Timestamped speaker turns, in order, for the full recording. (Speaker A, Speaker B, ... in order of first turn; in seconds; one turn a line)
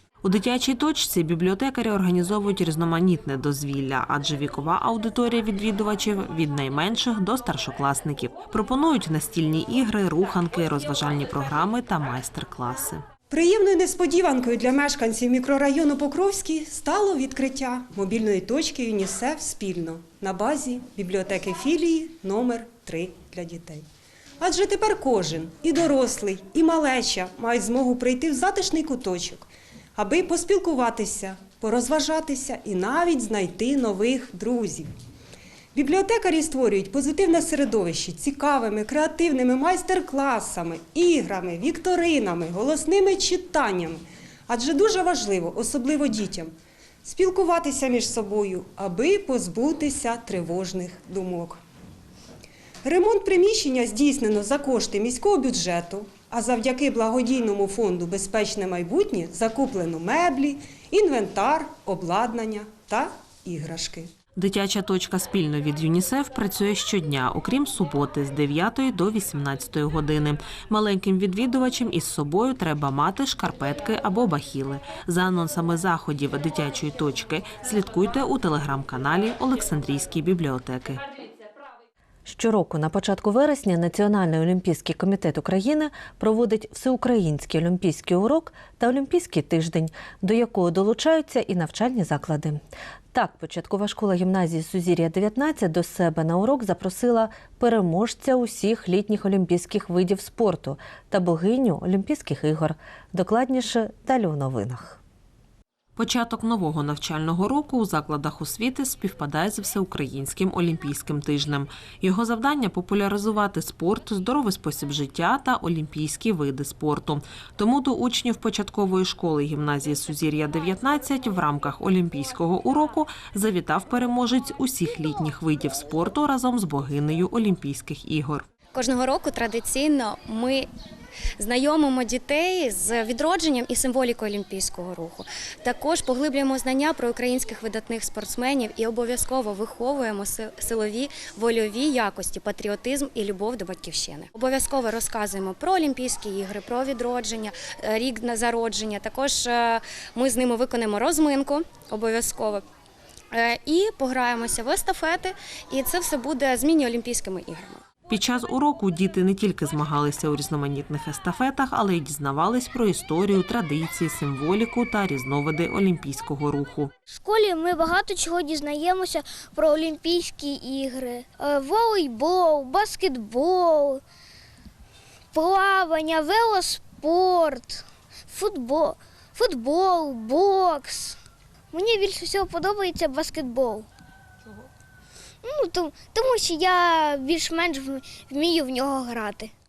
Speaker A: 0.2-13.0
Speaker B: 13.3-23.8
Speaker B: 24.4-34.9
Speaker B: 35.7-46.5
Speaker B: 47.0-51.6
Speaker B: 52.8-64.1
Speaker A: 64.4-81.0
Speaker C: 82.3-92.6
Speaker C: 93.1-105.0
Speaker A: 106.0-128.5
Speaker D: 128.7-130.7
Speaker D: 131.4-152.6
Speaker D: 153.3-157.8
Speaker A: 158.1-166.9
Speaker E: 167.1-174.0
Speaker E: 175.3-181.2
Speaker E: 181.7-183.9
Speaker E: 185.4-189.5